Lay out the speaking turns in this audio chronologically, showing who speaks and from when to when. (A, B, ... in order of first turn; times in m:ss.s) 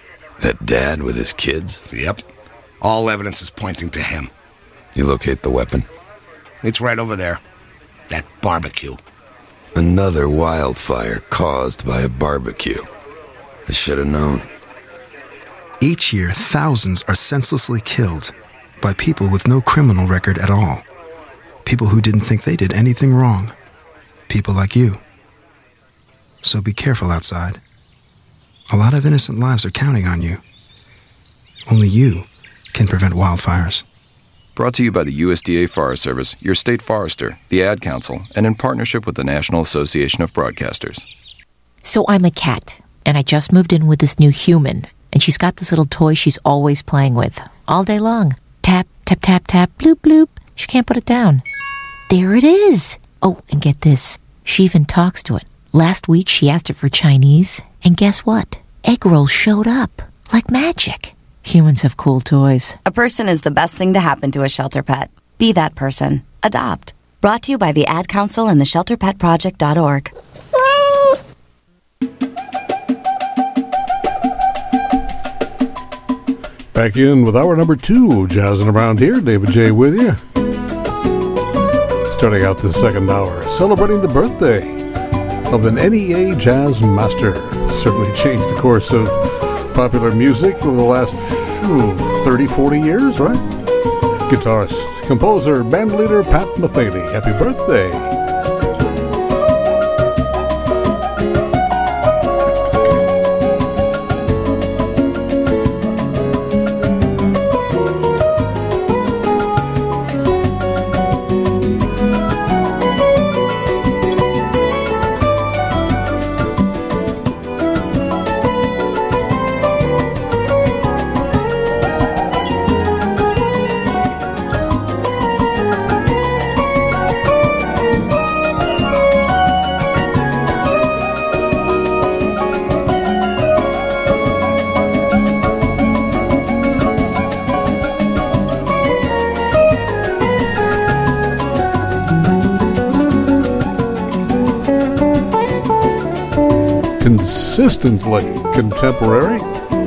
0:00.4-0:01.8 A
0:01.9-0:02.2 B
0:02.8-0:04.3 B
0:05.0-0:05.8 A
0:06.6-0:07.4 B
0:08.1-0:09.0 B
0:09.8-0:12.8 A
0:13.7-0:14.4 A
0:15.8-0:20.8 C
0:21.6-0:23.5 C
0:24.3-0:25.0 C
0:26.4-0:27.6 C
0:28.7-0:30.4 C
0:31.6-0:33.8 C
0:34.5-0:41.0 D
0:41.8-0:51.4 E
0:52.1-1:02.8 E
1:02.8-1:10.1 F
1:16.7-1:20.2 G
1:22.1-1:24.8 G
1:25.5-1:33.4 G
1:34.3-1:38.2 G
2:27.0-2:29.4 G